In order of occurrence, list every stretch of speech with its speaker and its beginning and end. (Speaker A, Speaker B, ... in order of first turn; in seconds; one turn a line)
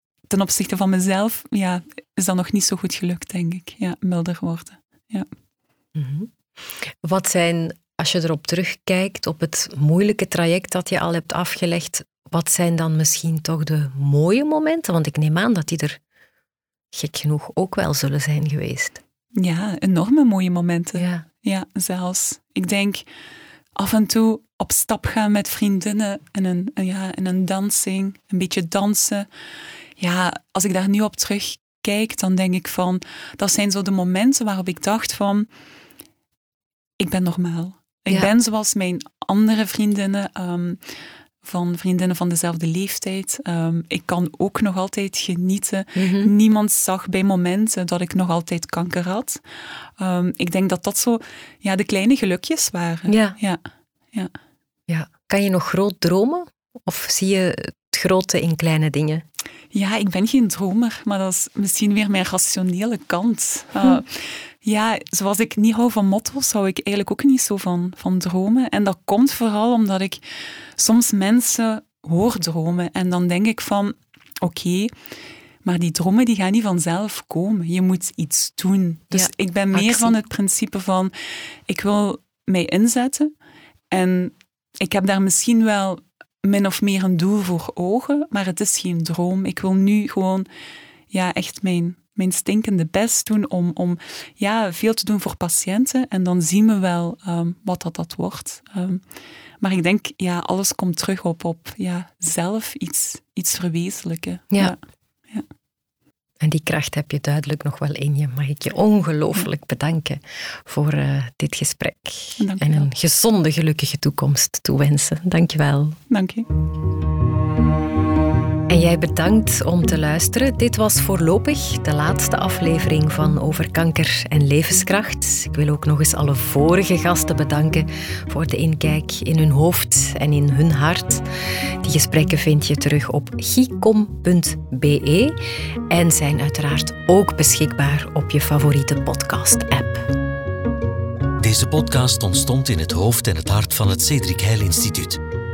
Speaker A: 0.3-5.3
Speaker B: 5.9-16.0
Speaker B: 16.9-19.0
Speaker A: 19.4-23.1
Speaker B: 20.9-21.2
Speaker A: 23.8-29.3
Speaker A: 30.0-35.5
Speaker A: 37.0-40.8
Speaker A: 41.4-49.4
Speaker B: 46.0-46.3
Speaker A: 50.0-53.6
Speaker B: 53.1-53.4
Speaker B: 54.9-59.2
Speaker A: 59.7-70.2
Speaker A: 70.8-74.9
Speaker A: 75.6-81.1
Speaker B: 79.1-80.1
Speaker A: 81.7-83.3
Speaker A: 83.9-90.5
Speaker A: 91.1-99.0
Speaker A: 99.6-104.8
Speaker B: 106.4-116.0
Speaker A: 112.4-112.8
Speaker A: 116.1-116.5
Speaker B: 118.7-131.2
Speaker B: 131.8-135.3
Speaker B: 135.9-140.1
Speaker C: 141.4-145.2